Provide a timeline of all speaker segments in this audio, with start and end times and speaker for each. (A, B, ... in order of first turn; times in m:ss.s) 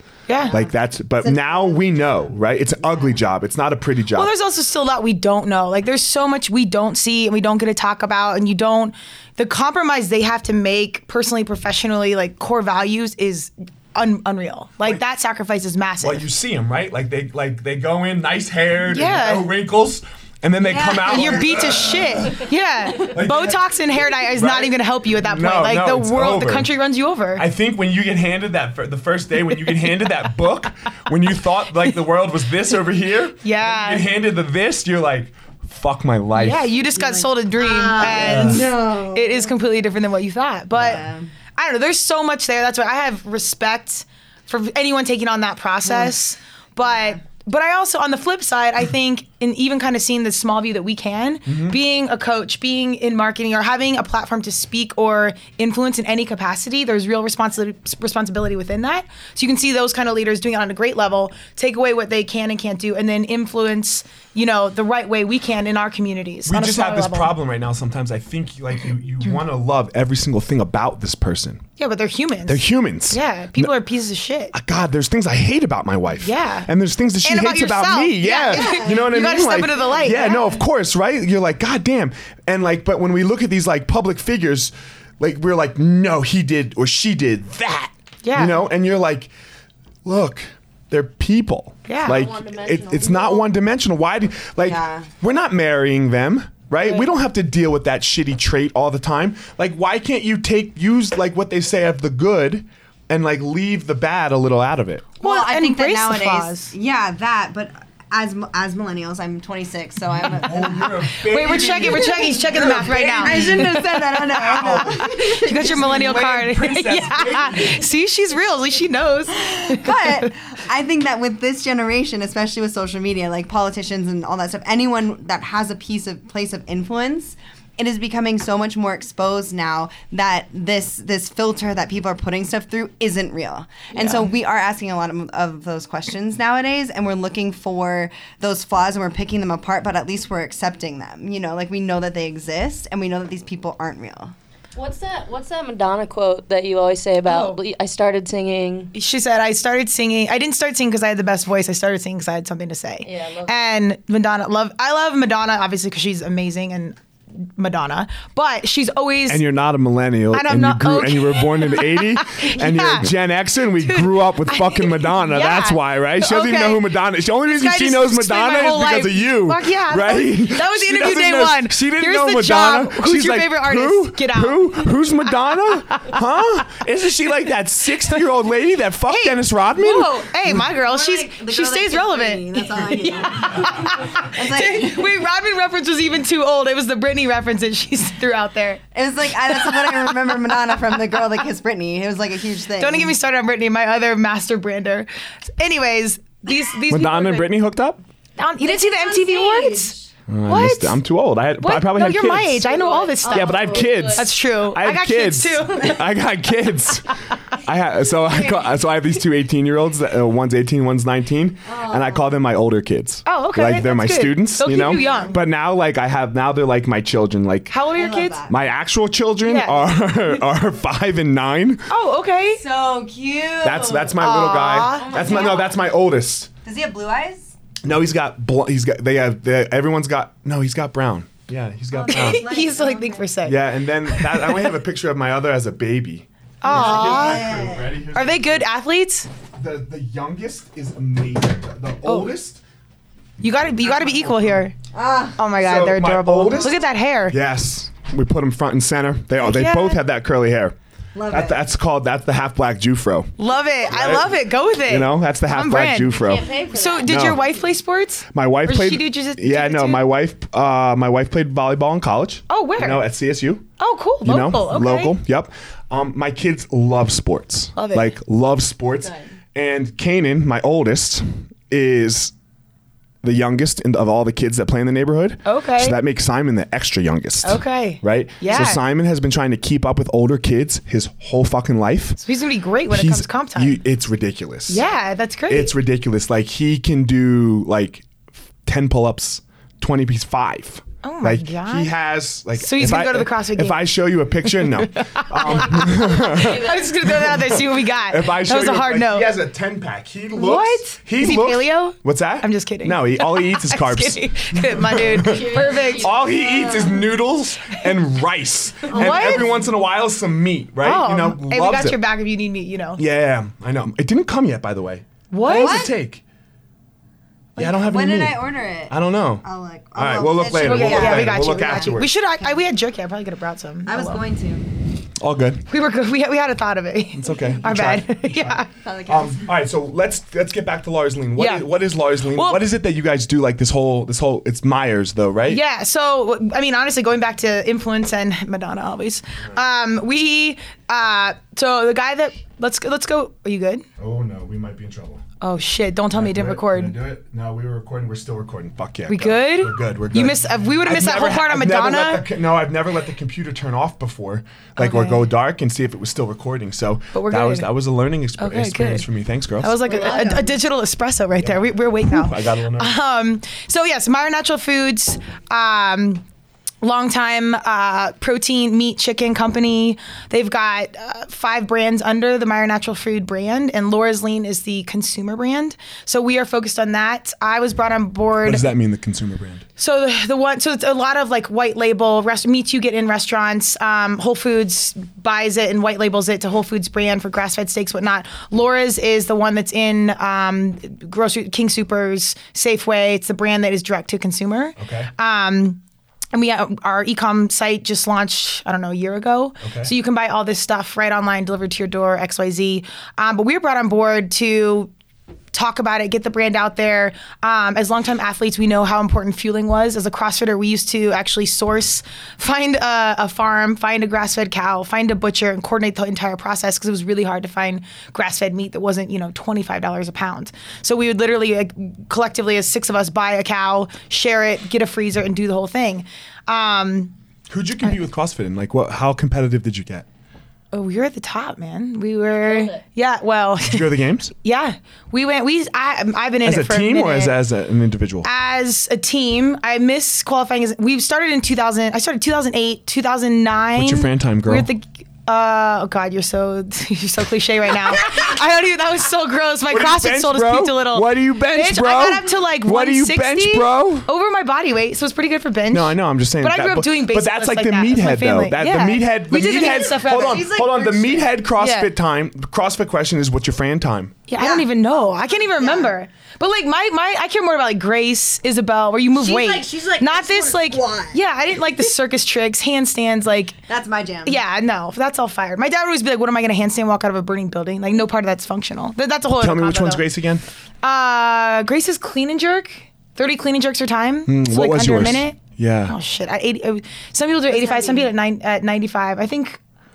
0:00.3-0:00.6 A
0:00.5-0:04.3 B
0:01.2-0:01.8 C
0:04.1-0:16.2 A
0:16.0-0:22.4 B
0:18.9-0:19.5 A
0:20.6-0:22.3 C
0:21.0-0:27.4 A
0:23.0-0:23.6 B
0:24.2-0:26.7 B
0:27.4-0:36.7 B
0:33.4-0:34.1 A
0:36.4-0:41.0 A
0:36.9-0:39.5 C
0:38.0-0:38.7 B
0:40.8-0:41.3 C
0:41.5-1:07.3 A
0:51.5-0:51.8 B
1:06.4-1:11.6 B
1:11.8-1:14.5 A
1:12.5-1:13.7 B
1:14.5-1:29.3 B
1:16.2-1:16.7 A
1:17.2-1:20.5 A
1:18.5-1:19.1 C
1:28.2-1:28.7 A
1:30.0-1:45.1 B
1:31.9-1:32.2 A
1:32.0-1:33.5 D
1:34.6-1:35.1 C
1:45.2-1:56.1 C
1:45.2-1:46.7 A
1:50.2-1:57.8 B
1:51.2-2:00.3 A
1:59.3-2:24.3 C
2:24.7-2:28.9 D
2:27.2-2:27.6 A
2:28.9-2:39.4 A
2:33.0-2:33.7 D
2:39.3-3:00.6 B
2:40.3-2:43.1 A
2:43.8-2:55.3 A
2:59.1-3:08.8 A
3:00.7-3:05.1 C
3:08.9-3:13.2 C
3:09.5-3:10.2 A
3:12.8-3:17.5 A
3:16.9-3:18.0 B
3:18.4-3:19.9 A
3:18.6-3:20.1 C
3:20.3-3:22.7 B
3:20.5-3:21.0 A
3:21.6-3:26.1 A
3:22.6-3:24.2 D
3:23.3-3:37.8 B
3:31.6-3:32.4 C
3:33.2-3:35.3 A
3:34.8-3:35.3 C
3:37.7-3:38.4 A
3:37.9-3:38.5 C
3:38.5-3:41.9 B
3:39.4-3:39.9 A
3:41.9-3:42.6 A
3:42.5-3:44.2 C
3:43.6-3:46.5 B
3:44.2-3:45.5 A
3:44.9-3:45.7 D
3:45.2-3:45.6 C
3:46.6-3:47.5 C
3:47.8-3:52.4 B
3:51.9-3:53.3 C
3:52.1-3:53.6 A
3:53.4-3:58.6 B
3:56.6-3:57.6 A
3:56.6-3:57.9 C
3:58.1-3:59.3 A
3:59.6-4:02.6 B
4:03.4-4:04.7 A
4:03.8-4:04.6 B
4:04.9-4:05.4 C
4:05.4-4:07.4 A
4:05.6-4:10.8 B
4:09.4-4:10.0 A
4:11.1-4:11.6 C
4:11.3-4:13.3 B
4:13.4-4:20.0 A
4:13.9-4:16.5 B
4:16.1-4:17.6 D
4:17.0-4:17.4 B
4:18.3-4:23.7 B
4:22.5-4:23.0 A
4:23.8-4:25.1 A
4:24.2-4:32.3 B
4:27.8-4:28.1 A
4:33.2-4:42.2 B
4:35.4-4:36.0 A
4:37.4-4:38.8 A
4:42.2-4:43.8 A
4:42.9-4:44.8 B
4:44.7-4:45.7 A
4:45.5-4:48.1 B
4:48.6-5:12.0 B
4:51.0-4:51.9 A
4:52.6-4:53.8 A
4:54.5-4:59.3 A
4:55.7-4:57.1 D
5:00.4-5:06.1 A
5:05.1-5:07.0 D
5:08.9-5:09.7 C
5:08.9-5:09.6 A
5:10.8-5:13.0 A
5:13.0-5:16.2 B
5:15.3-5:15.9 A
5:15.4-5:15.9 C
5:17.6-5:19.4 B
5:17.6-5:22.6 C
5:19.9-5:22.1 B
5:20.5-5:24.2 A
5:23.8-5:24.7 C
5:25.2-5:25.6 B
5:25.7-5:28.7 A
5:27.2-5:35.6 B
5:28.7-5:29.4 C
5:31.4-5:31.7 A
5:32.3-5:32.6 A
5:35.5-5:43.8 A
5:44.0-5:45.2 B
5:45.4-5:46.9 A
5:46.1-5:59.8 B
5:49.1-5:52.2 A
5:54.8-5:55.3 A
5:57.1-5:57.7 A
5:58.4-5:59.0 A
5:59.6-6:06.2 A
5:59.8-6:00.6 C
6:01.4-6:03.0 B
6:06.8-6:18.6 A
6:18.4-6:19.6 B
6:19.8-6:35.8 A
6:34.8-6:35.1 B
6:36.3-6:44.9 A
6:39.6-6:39.9 B
6:45.5-7:07.1 A
7:07.5-7:10.0 B
7:10.7-7:17.4 A
7:12.4-7:12.8 D
7:13.6-7:14.3 B
7:16.4-7:18.3 B
7:18.2-7:40.5 A
7:23.8-7:24.7 B
7:29.7-7:34.1 B
7:35.7-7:44.2 B
7:39.3-7:41.4 C
7:41.6-7:41.9 A
7:44.3-7:53.6 A
7:44.4-7:44.7 C
7:45.3-7:45.9 C
7:49.1-7:51.2 C
7:53.7-7:54.4 C
7:54.2-8:00.0 A
7:59.4-8:00.4 B
8:00.8-8:09.6 A
8:04.2-8:05.9 B
8:07.5-8:08.0 C